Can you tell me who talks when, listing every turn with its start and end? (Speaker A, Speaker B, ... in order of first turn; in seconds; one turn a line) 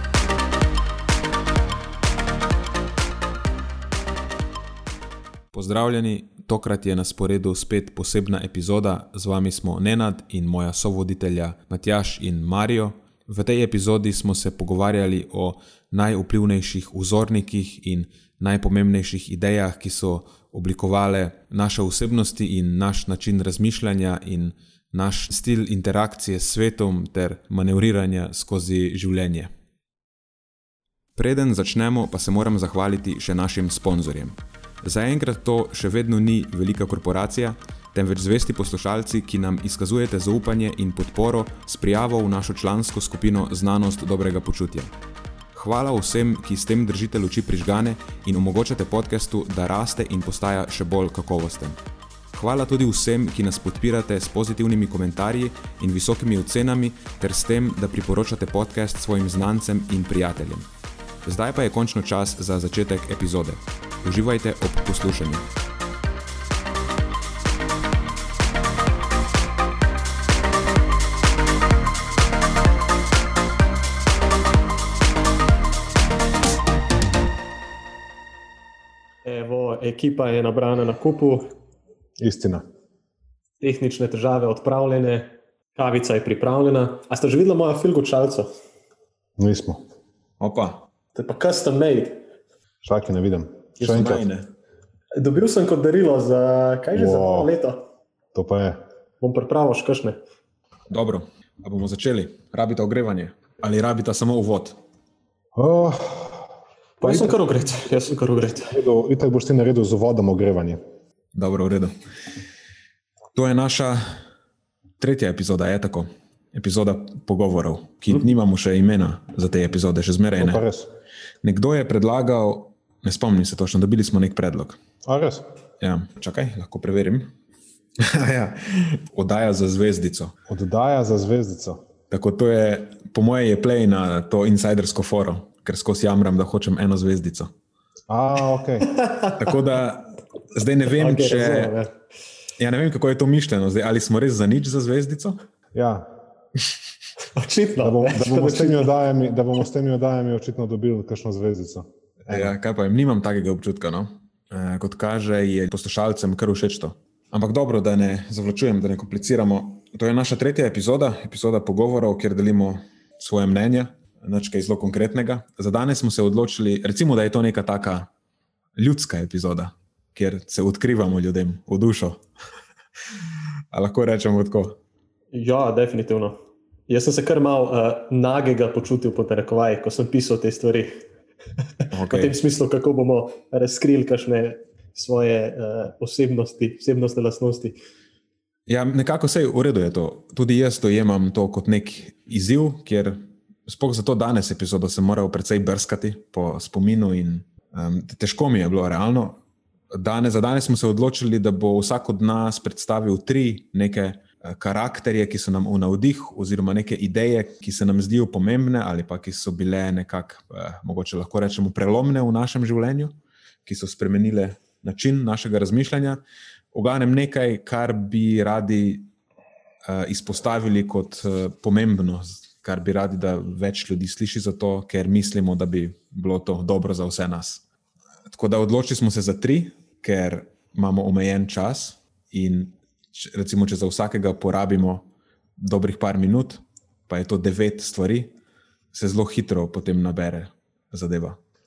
Speaker A: 5.5-29.5
Speaker A: 31.1-44.9
Speaker A: 45.5-51.8
Speaker A: 52.3-60.7
Speaker A: 61.2-65.5
Speaker B: 79.2-81.5
Speaker C: 82.2-82.7
Speaker B: 83.6-88.5
Speaker C: 89.4-89.8
Speaker A: 90.4-90.9
Speaker B: 91.1-92.2
Speaker C: 92.8-94.2
Speaker A: 93.8-94.5
Speaker B: 95.2-97.8
Speaker C: 96.9-97.5
Speaker C: 98.3-98.8
Speaker B: 99.2-100.2
Speaker A: 100.9-104.8
Speaker C: 105.5-106.5
Speaker B: 107.0-108.8
Speaker C: 107.0-107.4
Speaker C: 108.7-110.8
Speaker A: 111.3-111.9
Speaker A: 113.3-114.2
Speaker A: 115.0-120.6
Speaker C: 120.4-120.9
Speaker A: 121.4-124.8
Speaker C: 125.0-125.5
Speaker A: 125.8-127.3
Speaker A: 128.0-130.3
Speaker C: 130.5-131.8
Speaker A: 132.1-137.5
Speaker C: 138.1-138.9
Speaker B: 138.9-139.6
Speaker A: 139.3-141.7
Speaker B: 141.0-141.9
Speaker A: 142.6-145.4
Speaker C: 145.7-146.1
Speaker B: 147.2-148.9
Speaker C: 147.8-152.5
Speaker A: 152.3-168.1
Speaker A: 168.8-172.2
Speaker A: 173.7-174.8
Speaker B: 175.3-180.9
Speaker B: 181.8-187.8
Speaker A: 181.9-182.3
Speaker A: 188.7-199.4
Speaker A: 199.9-219.1
Speaker A: 219.9-227.6
Speaker A: 228.3-238.3
Speaker A: 238.9-241.4